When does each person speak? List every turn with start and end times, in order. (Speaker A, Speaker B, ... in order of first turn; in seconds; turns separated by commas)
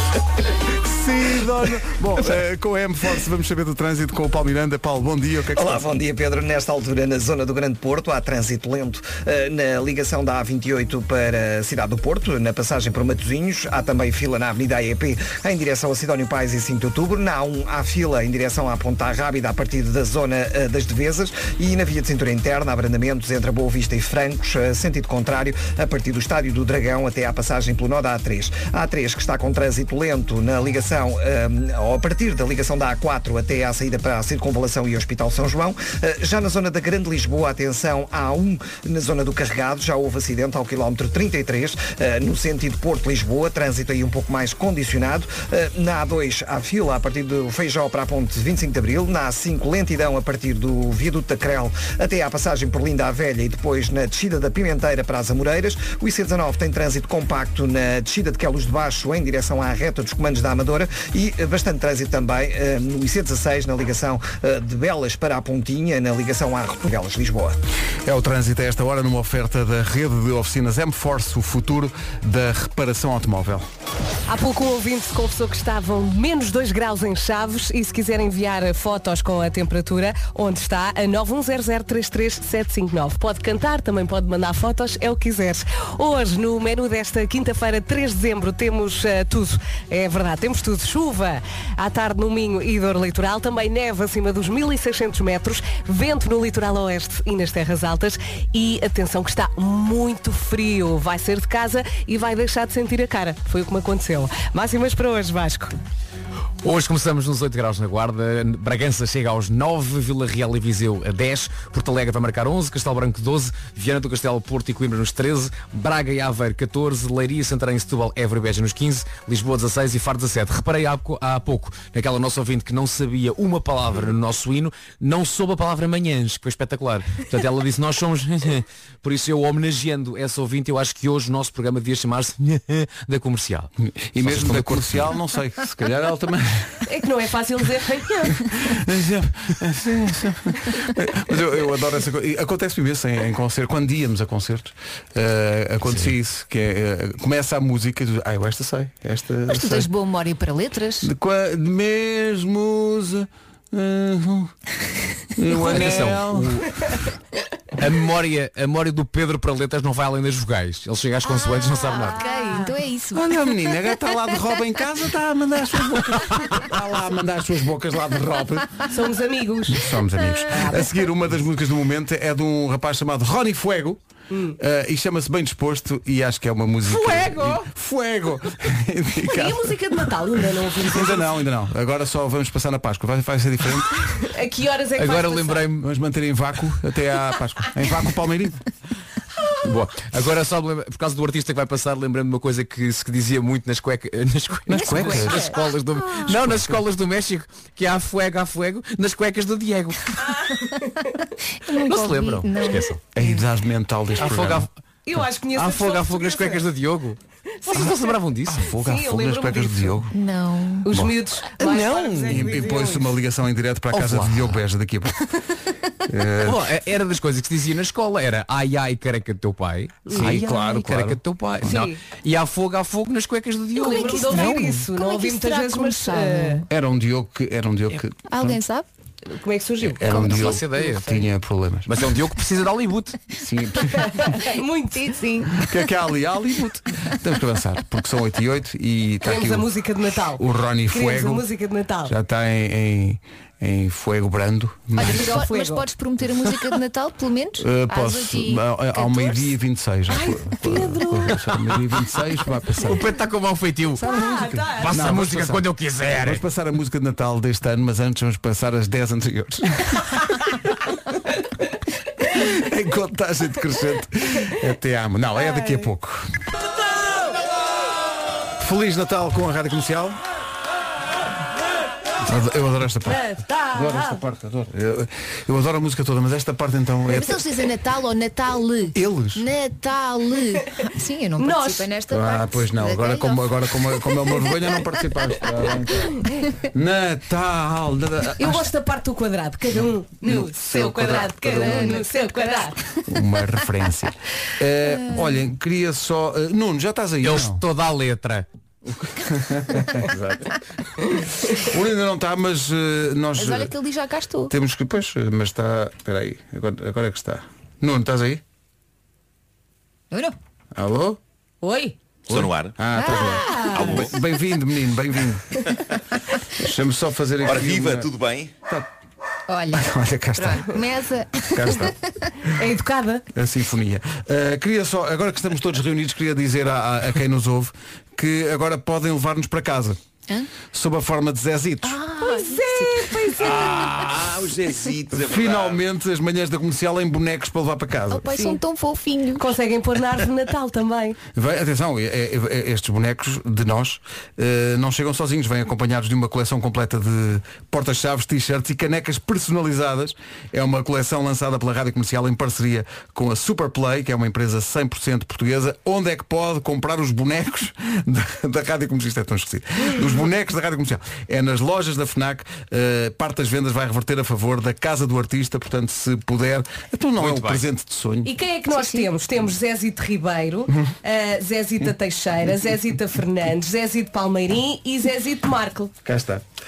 Speaker A: 0.8-5.8, Speaker B: 5.5-67.5, Speaker A: 68.0-73.6, Speaker C: 74.3-105.7, Speaker D: 106.6-135.2, Speaker A: 133.9-136.8, Speaker C: 136.8-138.4, Speaker A: 138.5-149.9, Speaker D: 145.8-146.1, Speaker E: 149.5-151.1, Speaker A: 151.0-154.5, Speaker A: 155.3-156.6, Speaker D: 155.6-156.7, Speaker D: 157.8-162.2, Speaker E: 161.8-163.4, Speaker C: 162.0-162.7, Speaker A: 163.1-168.8, Speaker C: 168.9-169.9, Speaker A: 169.7-174.0, Speaker C: 170.5-170.9, Speaker C: 174.3-174.6, Speaker A: 174.6-179.7, Speaker C: 176.9-177.6, Speaker C: 179.3-181.4, Speaker A: 180.9-184.0, Speaker C: 184.2-185.7, Speaker D: 184.9-185.8, Speaker A: 185.8-188.6, Speaker D: 189.6-200.1, Speaker A: 194.7-195.5, Speaker E: 195.0-195.5, Speaker A: 196.3-196.7, Speaker C: 200.3-200.7, Speaker E: 201.6-203.4, Speaker D: 201.8-203.0, Speaker A: 203.1-204.7, Speaker D: 204.2-204.7, Speaker C: 205.1-206.7, Speaker D: 205.5-207.2, Speaker C: 207.6-210.0, Speaker D: 207.7-208.6, Speaker A: 208.5-210.1, Speaker E: 210.1-210.9, Speaker C: 210.8-213.1, Speaker D: 211.6-212.4, Speaker A: 212.2-215.2, Speaker D: 213.9-214.6, Speaker A: 216.1-216.7, Speaker D: 216.4-224.7, Speaker C: 220.1-220.4, Speaker A: 220.1-221.2, Speaker C: 221.6-222.0, Speaker C: 223.8-226.6, Speaker E: 223.8-226.7, Speaker A: 226.7-228.6, Speaker E: 228.3-228.8, Speaker C: 229.3-230.7, Speaker A: 230.0-231.9, Speaker E: 230.1-230.4, Speaker D: 230.1-231.2, Speaker D: 231.9-233.2, Speaker A: 233.4-234.2, Speaker C: 234.0-235.5, Speaker A: 235.6-239.7, Speaker C: 239.2-242.1, Speaker A: 240.4-241.4, Speaker A: 242.1-245.4, Speaker E: 244.9-249.5, Speaker C: 245.0-245.8, Speaker A: 247.6-253.0, Speaker C: 250.1-251.4, Speaker D: 252.8-254.1, Speaker A: 254.0-260.1, Speaker C: 254.0-255.1, Speaker D: 254.8-256.4, Speaker A: 262.3-266.3, Speaker C: 265.4-265.9, Speaker A: 268.6-270.2, Speaker A: 272.2-277.4, Speaker C: 273.1-274.2, Speaker E: 277.1-283.9, Speaker A: 278.9-279.4, Speaker C: 281.4-281.9, Speaker A: 282.1-286.1, Speaker A: 286.7-288.6, Speaker C: 288.4-292.8, Speaker A: 290.2-292.0, Speaker E: 291.6-292.0, Speaker A: 293.1-297.6, Speaker E: 294.9-295.3, Speaker D: 297.2-298.4, Speaker A: 298.9-300.5, Speaker A: 301.5-303.7, Speaker E: 303.4-304.5, Speaker A: 304.5-308.4, Speaker A: 310.7-311.2, Speaker C: 311.6-311.9, Speaker A: 312.3-315.5, Speaker F: 312.3-312.8, Speaker E: 312.9-313.9, Speaker C: 313.2-314.0, Speaker F: 313.7-314.1, Speaker A: 316.6-318.1, Speaker F: 317.4-318.5, Speaker E: 319.5-322.3, Speaker A: 319.8-320.7, Speaker A: 321.5-321.9, Speaker C: 322.5-323.2, Speaker A: 323.3-330.0, Speaker A: 330.7-332.0, Speaker E: 331.8-333.9, Speaker C: 332.2-334.0, Speaker F: 333.4-335.8, Speaker A: 335.1-338.3, Speaker E: 338.1-339.4, Speaker C: 339.4-341.2, Speaker A: 341.4-368.3, Speaker D: 367.2-367.6, Speaker C: 368.2-375.9, Speaker E: 368.7-369.1, Speaker A: 376.0-376.4